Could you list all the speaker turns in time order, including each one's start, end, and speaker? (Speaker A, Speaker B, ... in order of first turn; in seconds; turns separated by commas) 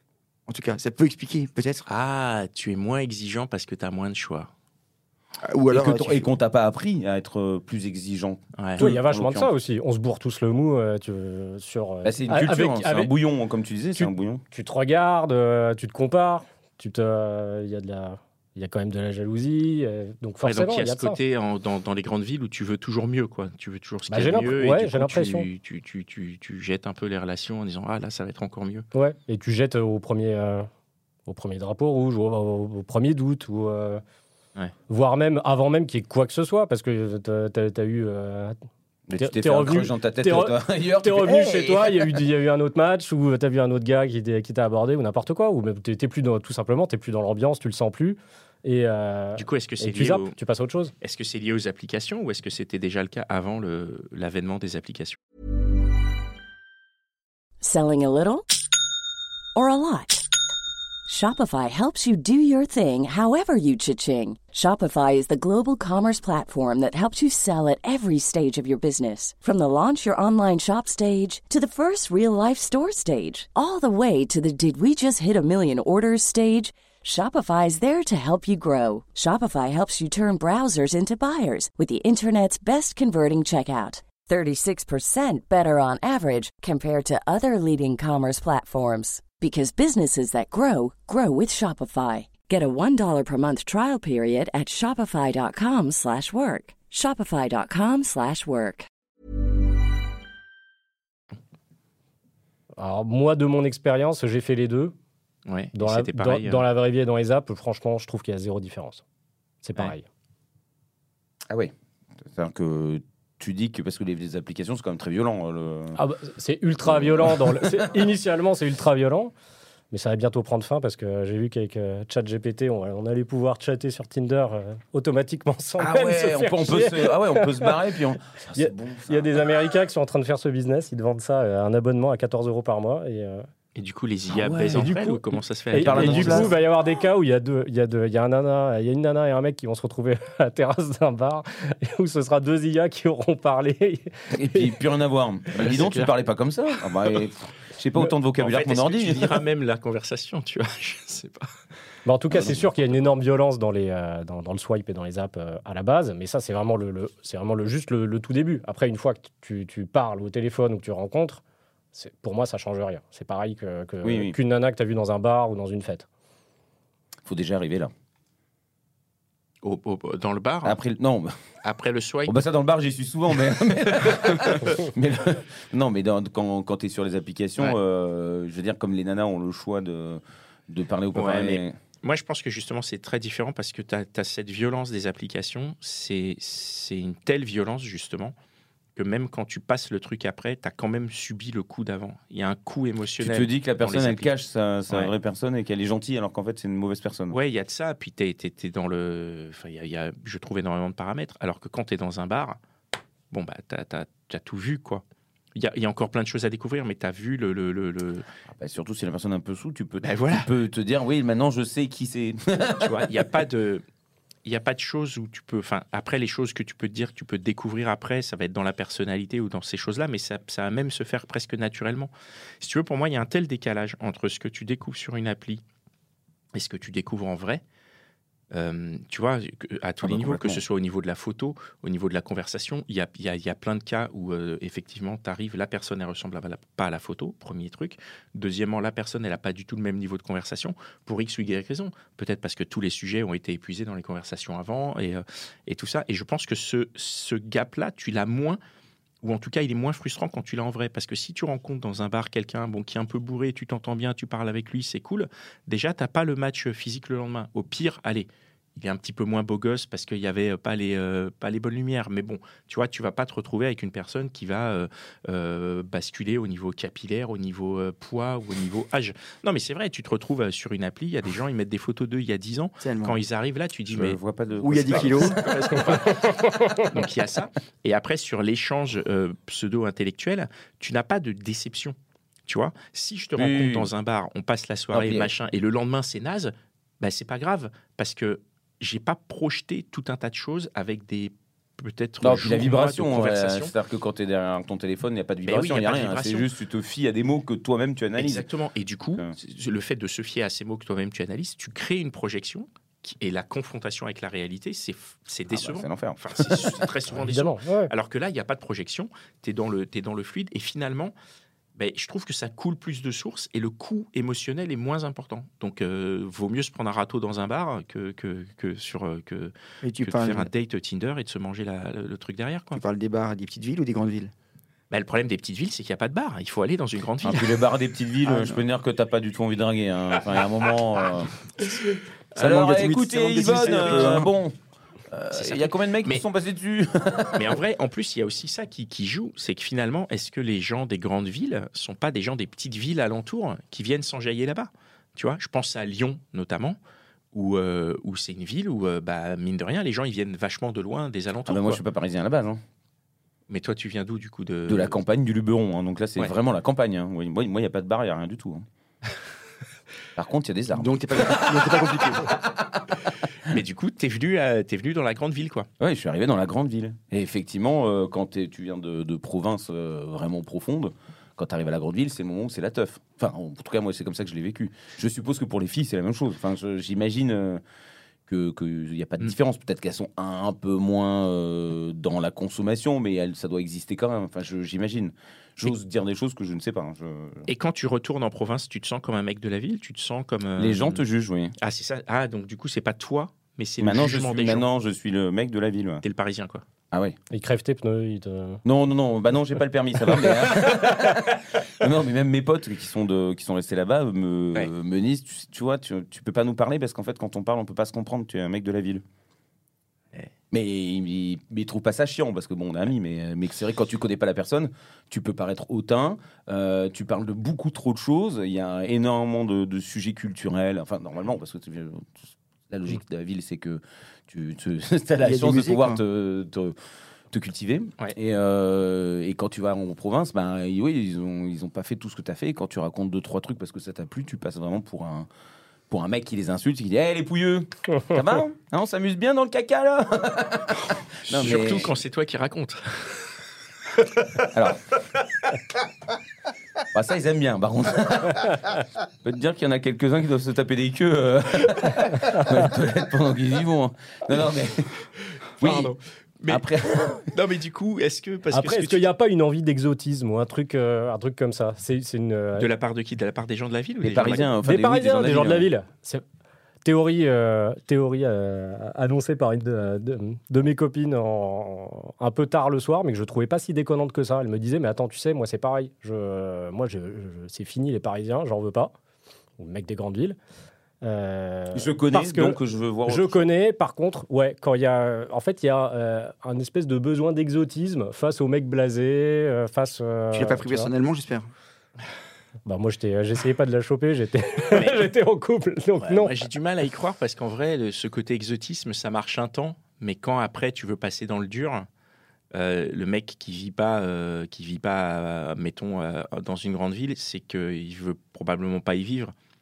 Speaker A: 0.5-1.9, Speaker B: 1.9-4.5, Speaker A: 5.5-6.3, Speaker C: 5.7-9.5, Speaker B: 8.6-8.8, Speaker D: 8.8-13.1, Speaker C: 12.0-14.4, Speaker D: 14.0-21.2, Speaker B: 20.4-28.9, Speaker D: 24.1-25.5, Speaker D: 28.9-30.7, Speaker D: 31.3-34.0, Speaker D: 34.9-38.6, Speaker C: 39.1-42.1, Speaker D: 39.2-50.9, Speaker B: 49.4-50.4, Speaker B: 51.0-55.2, Speaker E: 57.6-58.5, Speaker E: 59.5-60.3, Speaker E: 61.1-98.9, Speaker D: 102.8-104.9, Speaker B: 105.5-106.7, Speaker D: 105.8-109.0, Speaker D: 109.6-110.1, Speaker C: 111.5-116.0, Speaker D: 116.0-119.3, Speaker C: 116.9-117.8, Speaker D: 119.9-127.8, Speaker C: 125.8-129.3, Speaker D: 128.6-133.5, Speaker B: 133.8-136.5, Speaker C: 134.3-134.9, Speaker D: 134.7-135.2, Speaker D: 135.7-144.8, Speaker C: 135.8-136.5, Speaker C: 144.3-149.4, Speaker B: 145.6-146.1, Speaker B: 148.4-151.5, Speaker D: 152.1-161.4, Speaker C: 152.3-152.7, Speaker D: 161.9-166.1, Speaker C: 164.0-164.4, Speaker C: 167.2-167.9, Speaker B: 169.6-170.8, Speaker C: 170.6-171.4, Speaker B: 171.6-172.3, Speaker C: 172.3-181.8, Speaker B: 174.0-174.8, Speaker B: 181.1-188.3, Speaker B: 189.0-194.3, Speaker C: 193.2-197.4, Speaker B: 197.3-202.6, Speaker B: 203.3-205.0, Speaker B: 205.6-208.2, Speaker C: 208.5-213.3, Speaker B: 210.0-210.5, Speaker B: 212.8-213.8, Speaker B: 214.4-225.6, Speaker B: 226.6-227.6, Speaker B: 228.5-248.6, Speaker C: 230.0-230.6, Speaker B: 249.2-274.2, Speaker A: 272.8-273.2, Speaker C: 273.9-276.1, Speaker A: 274.6-275.4, Speaker B: 274.9-282.0, Speaker B: 282.5-293.7, Speaker C: 283.4-283.9, Speaker C: 284.9-285.3, Speaker C: 292.2-298.4, Speaker B: 295.4-296.5, Speaker B: 298.2-311.1, Speaker C: 305.5-306.9, Speaker D: 307.2-307.9, Speaker B: 311.8-322.8, Speaker A: 319.8-320.5, Speaker A: 322.7-324.3, Speaker B: 324.9-327.6, Speaker C: 327.2-331.4, Speaker A: 328.2-328.6, Speaker A: 331.6-334.3, Speaker C: 332.4-334.6, Speaker B: 333.4-334.2, Speaker C: 335.1-337.6, Speaker B: 335.3-336.2, Speaker B: 337.4-346.8, Speaker B: 347.3-351.8, Speaker C: 351.5-352.6, Speaker B: 353.5-355.0, Speaker C: 354.7-358.7, Speaker C: 360.2-363.0, Speaker A: 360.7-362.4, Speaker B: 363.5-365.7, Speaker C: 365.8-377.6, Speaker C: 378.3-387.5, Speaker B: 387.5-391.0, Speaker C: 390.6-391.6, Speaker B: 391.6-394.7, Speaker C: 393.8-396.0, Speaker B: 396.0-396.6, Speaker C: 396.9-397.2, Speaker D: 397.3-398.6, Speaker C: 398.6-409.0, Speaker C: 410.5-426.8, Speaker A: 425.2-426.0, Speaker C: 427.3-435.3, Speaker C: 435.9-441.9, Speaker B: 441.3-443.3, Speaker C: 444.4-444.8, Speaker C: 446.9-454.9, Speaker C: 455.6-456.0, Speaker B: 455.6-456.6, Speaker C: 456.5-457.3, Speaker B: 457.3-459.1, Speaker D: 458.5-462.7, Speaker B: 462.6-464.5, Speaker C: 464.0-465.7, Speaker D: 464.6-466.2, Speaker D: 466.9-478.9, Speaker D: 479.6-480.4, Speaker D: 481.0-490.9, Speaker C: 481.7-483.4, Speaker A: 490.3-491.5, Speaker D: 492.7-496.3, Speaker B: 494.7-495.1, Speaker B: 496.0-501.9, Speaker B: 502.5-509.3